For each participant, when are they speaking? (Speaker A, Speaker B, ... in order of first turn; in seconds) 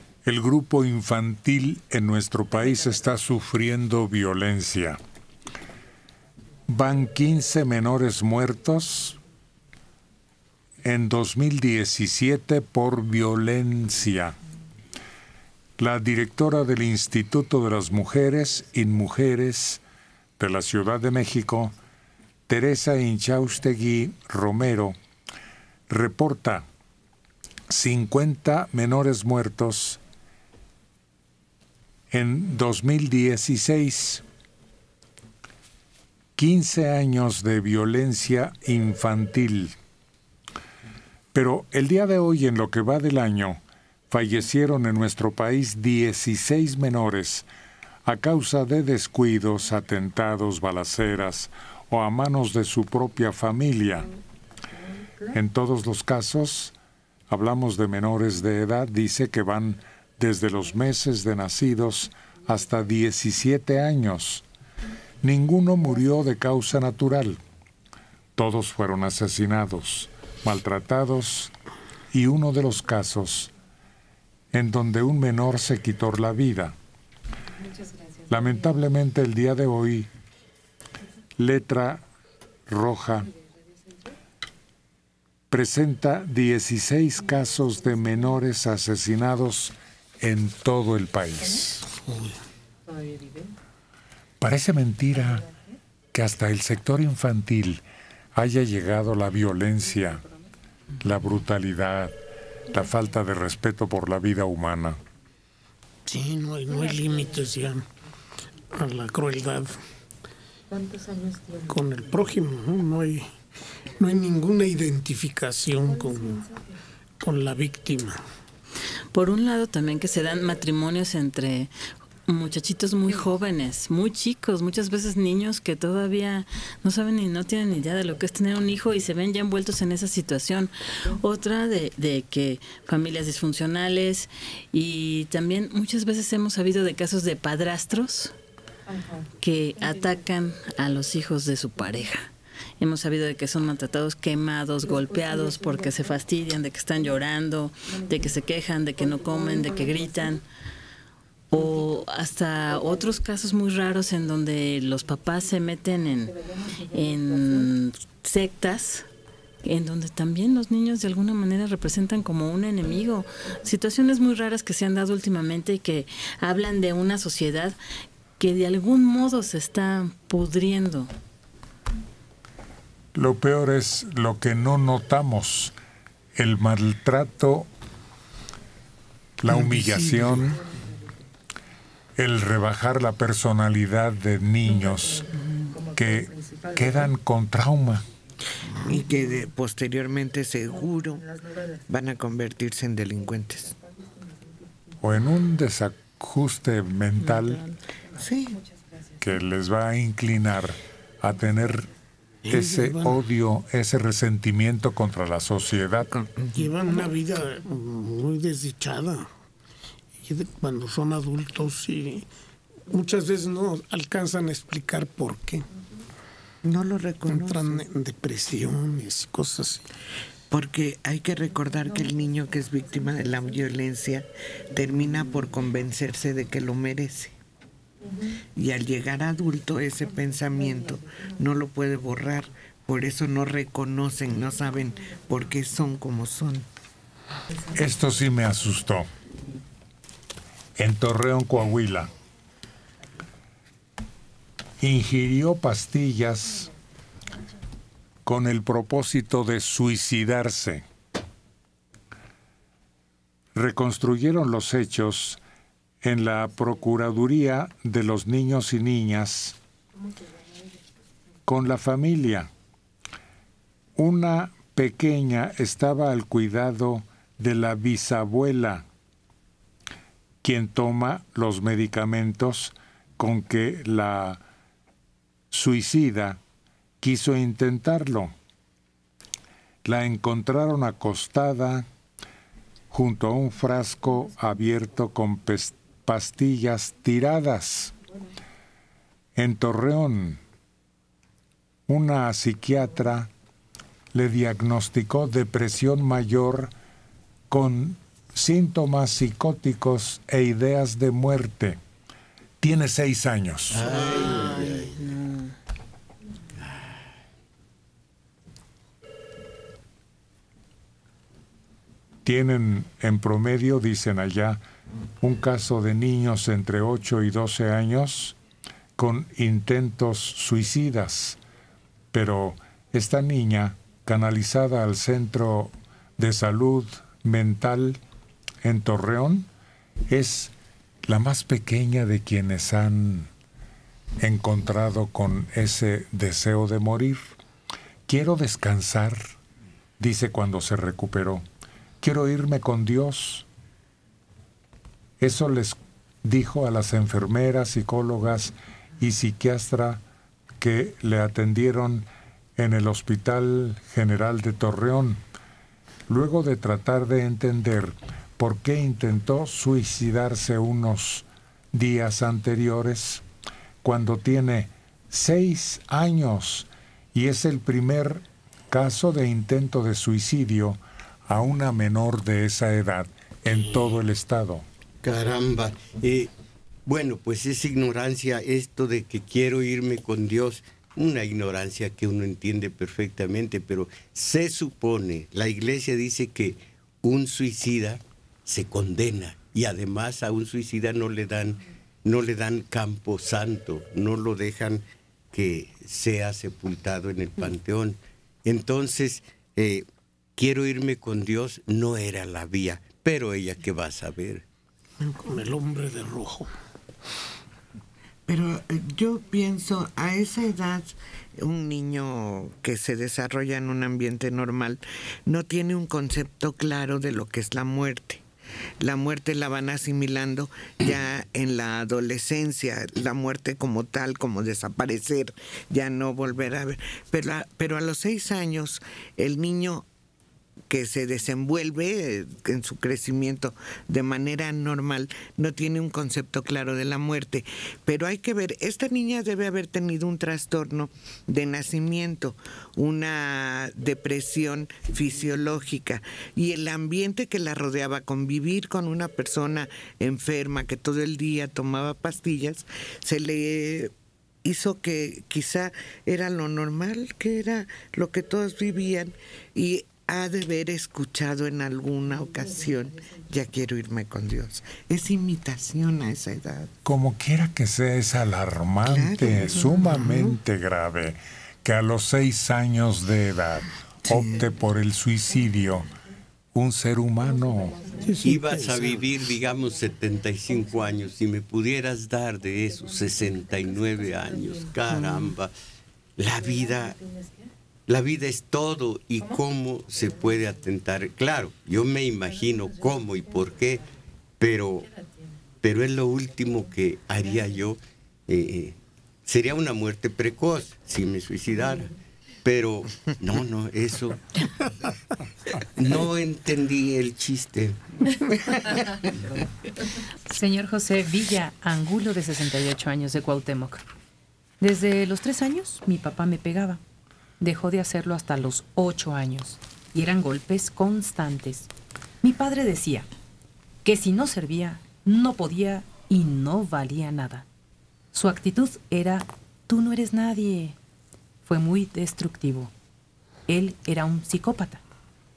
Speaker A: 0.2-5.0, 6.7-9.2, 10.8-14.3, 15.8-19.8, 20.4-21.7, 22.5-24.9, 25.9-26.6, 27.7-30.0, 32.1-34.2, 36.4-39.7, 41.3-47.5, 48.0-54.1, 55.3-56.7, 57.3-64.4, 65.2-67.4, 68.3-71.5, 72.1-73.5, 74.5-76.7, 78.3-80.1, 81.4-82.0, 82.7-83.3, 85.5-91.8, 94.4-95.5, 96.1-97.8, 98.3-100.2, 101.0-102.1, 102.7-105.0, 173.1-175.7, 176.3-177.7, 179.4-180.6, 182.2-185.3, 185.8-188.0, 195.0-197.7, 199.2-201.9, 202.5-206.1, 237.7-239.1, 240.8-242.1, 244.8-246.7, 248.2-250.8, 253.5-255.4, 256.0-259.6, 261.5-262.5, 264.0-268.8, 270.4-274.4, 275.5-276.4, 277.0-278.3, 279.8-281.9, 282.9-287.9, 289.4-290.4, 291.9-293.3, 294.1-296.7, 297.5-301.8, 302.6-303.9, 312.2-314.6, 315.2-318.4, 319.0-321.4, 322.1-328.0, 328.6-329.5, 330.1-330.5, 331.1-333.3, 334.2-337.2, 338.1-339.3, 340.0-341.4, 342.0-343.4, 345.2-350.0, 350.6-355.2, 356.1-363.2, 363.8-374.6, 466.8-475.9, 476.5-477.8
Speaker B: 92.0-92.4, 106.1-107.9, 108.7-109.8, 111.6-113.3, 114.0-116.5, 117.2-118.2, 202.4-203.2, 206.5-209.3, 210.2-212.3, 212.9-215.7, 217.3-219.8, 405.0-406.5, 478.0-479.1
Speaker C: 119.1-121.7, 122.3-138.3, 139.4-150.4, 151.5-159.1, 159.6-167.8, 168.4-171.1, 303.9-305.5
Speaker D: 188.8-191.3, 191.9-193.8, 198.1-198.6, 206.1-206.5, 216.6-217.8, 220.5-227.3, 228.6-236.7, 408.3-418.2, 418.8-429.8, 430.7-453.9, 454.4-466.7, 468.9-470.4
Speaker E: 303.7-305.1, 306.6-306.9, 375.0-376.3, 376.9-399.8, 400.4-404.4, 478.2-485.5, 486.2-487.0, 487.9-493.9, 494.4-494.9, 495.6-504.2, 505.8-507.8
Speaker F: 510.3-513.8, 514.6-516.8, 517.4-521.7, 522.2-523.1, 523.8-527.4, 528.1-530.8, 531.4-532.7, 533.5-534.8